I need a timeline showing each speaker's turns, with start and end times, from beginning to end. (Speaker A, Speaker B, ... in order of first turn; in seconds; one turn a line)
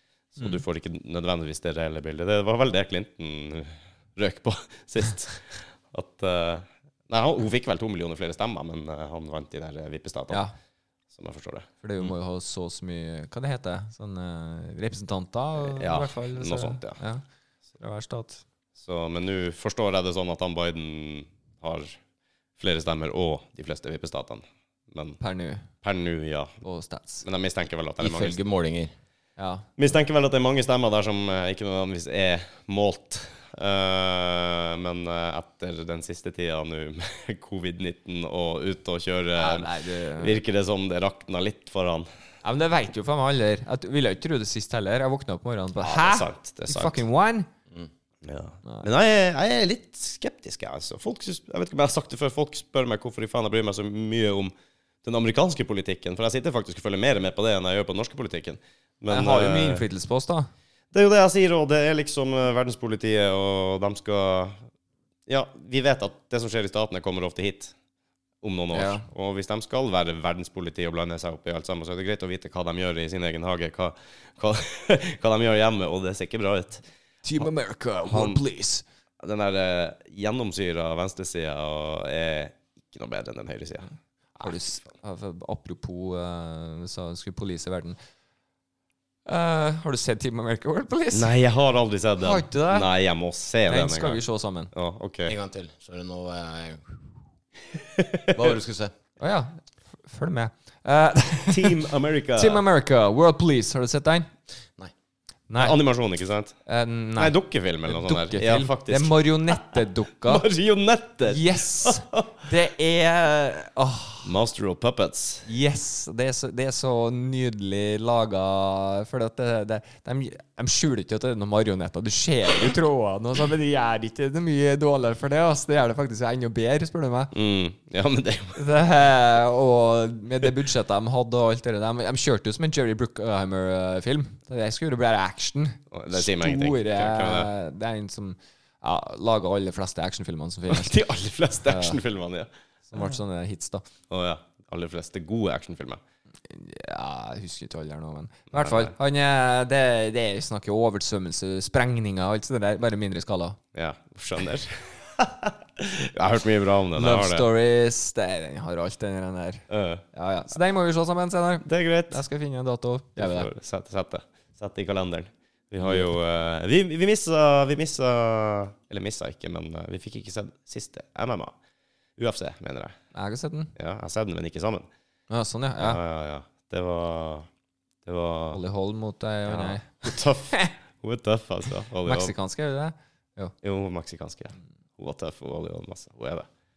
Speaker A: 0.3-10.4
Speaker A: 11.1-12.1
Speaker B: 11.8-17.2
Speaker A: 15.8-17.0
Speaker B: 17.8-18.4
Speaker A: 18.8-22.0
Speaker A: 22.6-25.2
Speaker B: 25.2-25.7
Speaker A: 25.8-26.6
Speaker B: 26.6-27.2
Speaker A: 27.2-28.4
Speaker C: 28.0-28.9
Speaker B: 29.4-29.7
Speaker A: 29.8-42.1
Speaker B: 39.4-40.4
Speaker B: 42.4-47.5
Speaker A: 45.8-47.0
Speaker A: 48.2-54.5
Speaker A: 55.0-59.8
Speaker B: 59.1-60.5
Speaker A: 60.9-64.6
Speaker A: 65.3-67.7
Speaker A: 68.4-76.8
Speaker B: 68.7-69.0
Speaker B: 77.2-78.8
Speaker A: 78.1-78.4
Speaker A: 79.2-83.9
Speaker B: 84.4-88.0
Speaker B: 89.2-91.3
Speaker A: 91.1-95.3
Speaker B: 92.2-92.8
Speaker B: 93.7-94.7
Speaker C: 95.2-96.9
Speaker A: 97.9-98.5
Speaker C: 98.3-98.9
Speaker B: 99.2-104.3
Speaker A: 101.5-102.6
Speaker B: 105.5-105.8
Speaker A: 105.6-106.6
Speaker B: 106.7-107.3
Speaker A: 107.2-112.3
Speaker B: 107.8-110.5
Speaker B: 111.2-114.3
Speaker A: 114.2-115.5
Speaker B: 115.5-127.3
Speaker A: 127.3-128.6
Speaker B: 128.5-141.0
Speaker A: 135.9-137.5
Speaker A: 140.7-142.5
Speaker B: 141.6-142.0
Speaker B: 142.9-143.8
Speaker A: 144.1-146.0
Speaker B: 146.5-153.6
Speaker A: 148.5-148.9
Speaker A: 153.7-157.5
Speaker B: 156.9-163.5
Speaker A: 159.7-160.0
Speaker A: 161.6-162.2
Speaker A: 163.2-171.5
Speaker B: 165.8-166.1
Speaker A: 172.2-172.9
Speaker B: 173.1-173.7
Speaker A: 173.8-174.9
Speaker B: 175.3-176.0
Speaker A: 175.8-177.5
Speaker A: 178.0-178.6
Speaker B: 178.5-180.7
Speaker A: 179.5-182.3
Speaker B: 182.0-183.5
Speaker A: 183.6-186.5